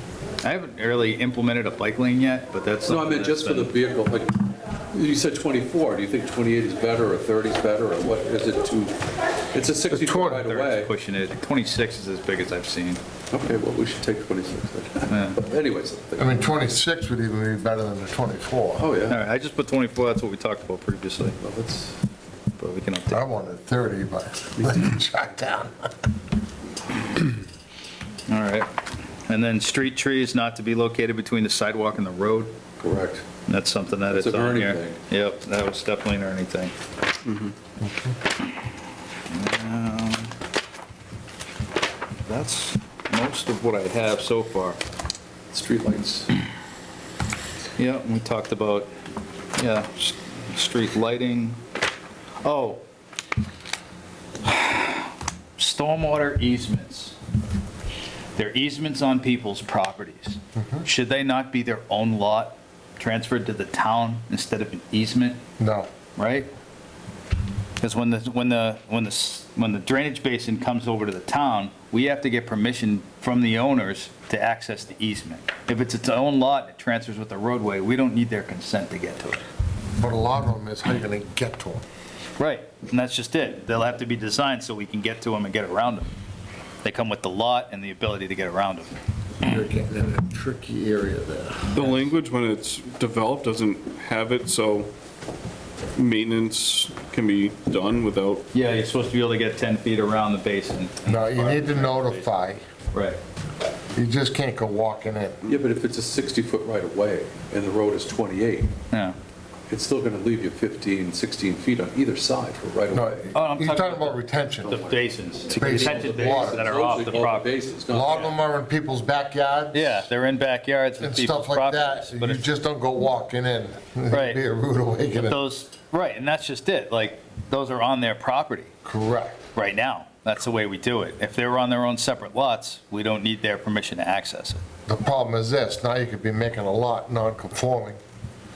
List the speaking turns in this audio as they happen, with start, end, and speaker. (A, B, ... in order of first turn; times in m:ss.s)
0:00.4-0:03.7 A
0:02.8-0:09.0 B
0:09.5-0:10.9 B
0:09.9-0:10.4 C
0:10.4-0:13.0 A
0:13.3-0:16.5 B
0:15.1-0:15.4 A
0:16.2-0:18.8 C
0:18.8-0:19.2 B
0:19.1-0:21.4 A
0:21.4-0:22.0 B
0:22.6-0:23.2 A
0:23.1-0:25.9 C
0:28.3-0:28.7 A
0:29.3-0:32.5 A
0:32.8-0:33.2 B
0:33.5-0:36.7 A
0:34.1-0:35.0 B
0:37.3-0:37.5 D
0:37.8-0:38.2 C
0:39.3-0:40.3 A
0:42.3-0:44.8 A
0:45.5-0:46.3 B
0:47.8-0:48.9 A
0:49.6-0:51.6 A
0:52.4-0:52.8 A
0:54.4-0:57.1 A
0:58.4-1:05.4 A
1:00.5-1:00.8 C
1:05.6-1:05.9 C
1:06.2-1:06.5 A
1:07.8-1:19.4 A
1:20.0-1:21.8 C
1:22.4-1:26.1 A
1:26.8-1:28.9 A
1:29.4-1:32.0 C
1:31.7-1:34.9 D
1:36.0-1:38.4 D
1:38.5-1:42.2 A
1:41.0-1:42.6 C
1:42.9-1:43.2 A
1:43.9-1:45.4 C
1:45.4-1:48.7 B
1:49.7-1:53.3 B
1:52.9-1:54.8 C
1:53.3-1:57.5 A
1:54.6-1:58.3 B
1:55.5-1:56.7 C
1:57.9-2:00.0 C
1:59.7-2:02.5 A
2:01.0-2:05.4 C
2:04.1-2:04.4 A
2:05.1-2:08.7 A
2:08.8-2:09.4 C
2:09.5-2:14.6 A
2:14.9-2:18.0 C